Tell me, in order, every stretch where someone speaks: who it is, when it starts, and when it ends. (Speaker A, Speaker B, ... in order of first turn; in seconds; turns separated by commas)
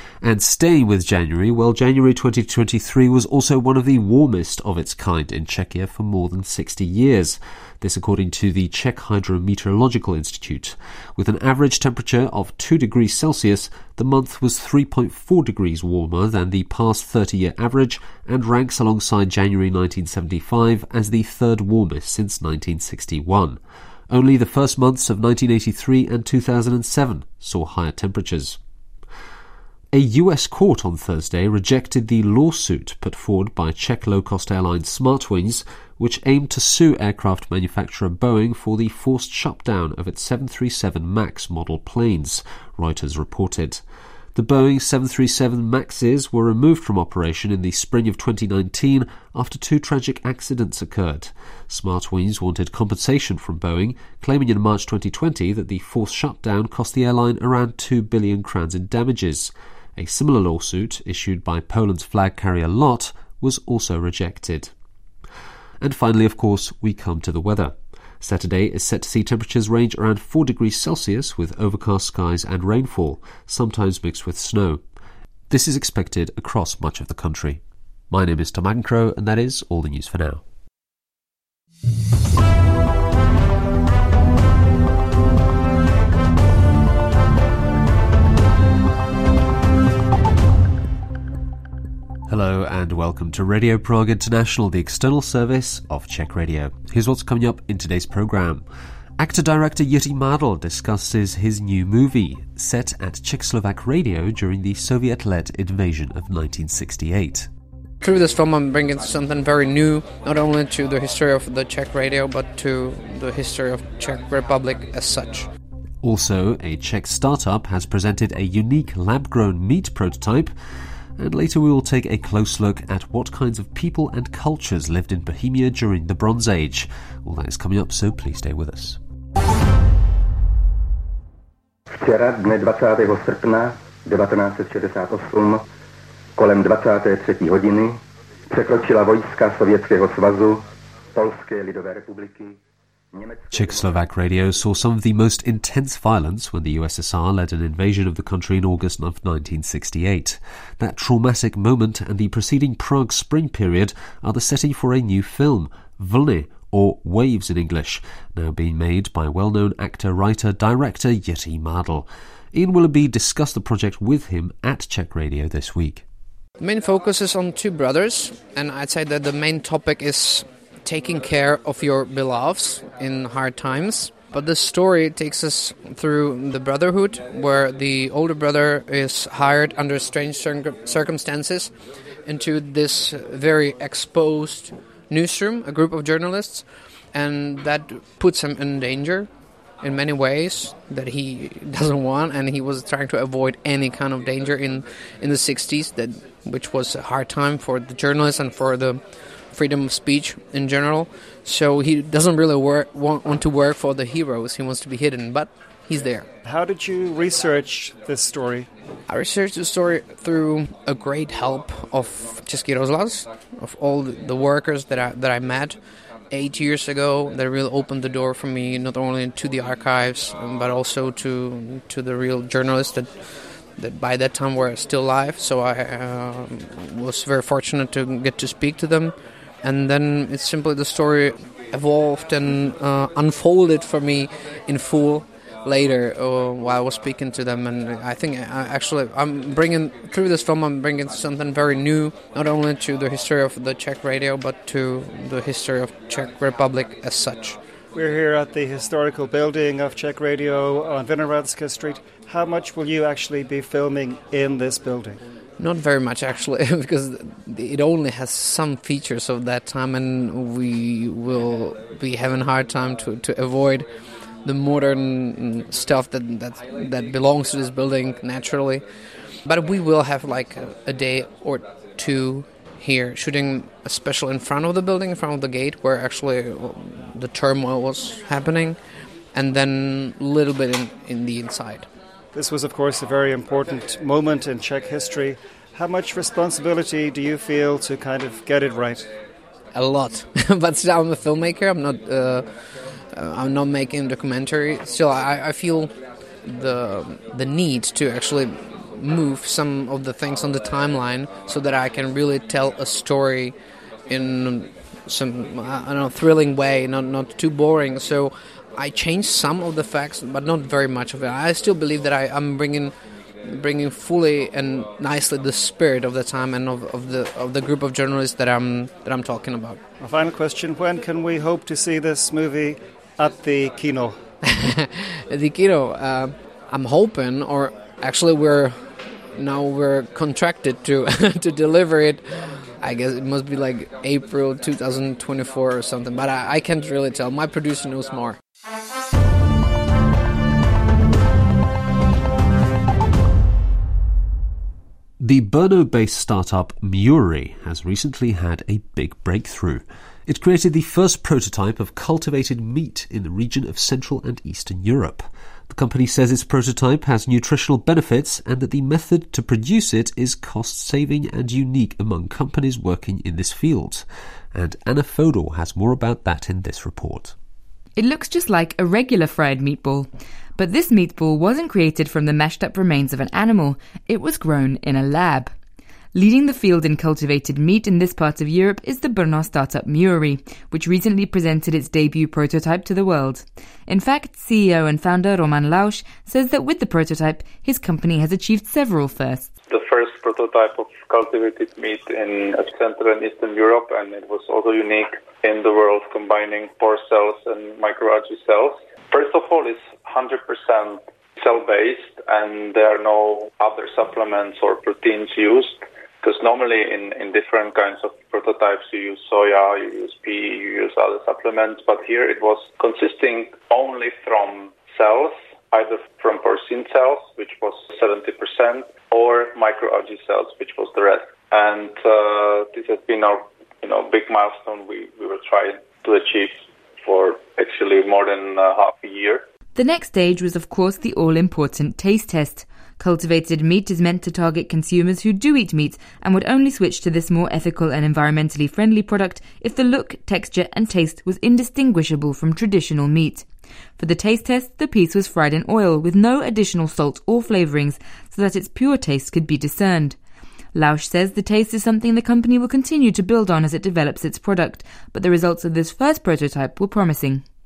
Speaker A: 0.2-23.6, Speaker A: 24.1-28.6, Speaker A: 29.9-43.8, Speaker A: 44.3-64.7, Speaker A: 65.8-74.8, Speaker A: 75.5-80.4, Speaker A: 92.3-98.6, Speaker A: 99.2-107.5, Speaker B: 108.0-115.5, Speaker A: 116.0-120.5, Speaker A: 121.2-129.0, Speaker C: 131.9-135.6, Speaker C: 136.4-138.0, Speaker C: 138.5-142.6, Speaker C: 143.1-143.9, Speaker A: 143.5-166.0, Speaker B: 166.6-181.7, Speaker B: 182.2-189.3, Speaker B: 189.8-206.3, Speaker D: 206.4-208.7, Speaker B: 209.1-215.8, Speaker B: 216.3-247.6, Speaker D: 247.9-255.2, Speaker B: 255.6-263.9, Speaker B: 264.4-268.8, Speaker B: 269.4-278.8, Speaker B: 279.3-281.9, Speaker D: 282.3-289.1, Speaker B: 289.7-303.5, Speaker B: 304.1-312.9, Speaker B: 313.4-319.8, Speaker D: 320.0-324.2, Speaker B: 324.4-328.8, Speaker B: 329.3-338.4, Speaker A: 345.2-367.3, Speaker E: 368.0-375.5, Speaker E: 376.1-389.5, Speaker F: 389.7-429.4, Speaker E: 429.7-443.4, Speaker E: 444.0-450.2, Speaker E: 450.7-457.4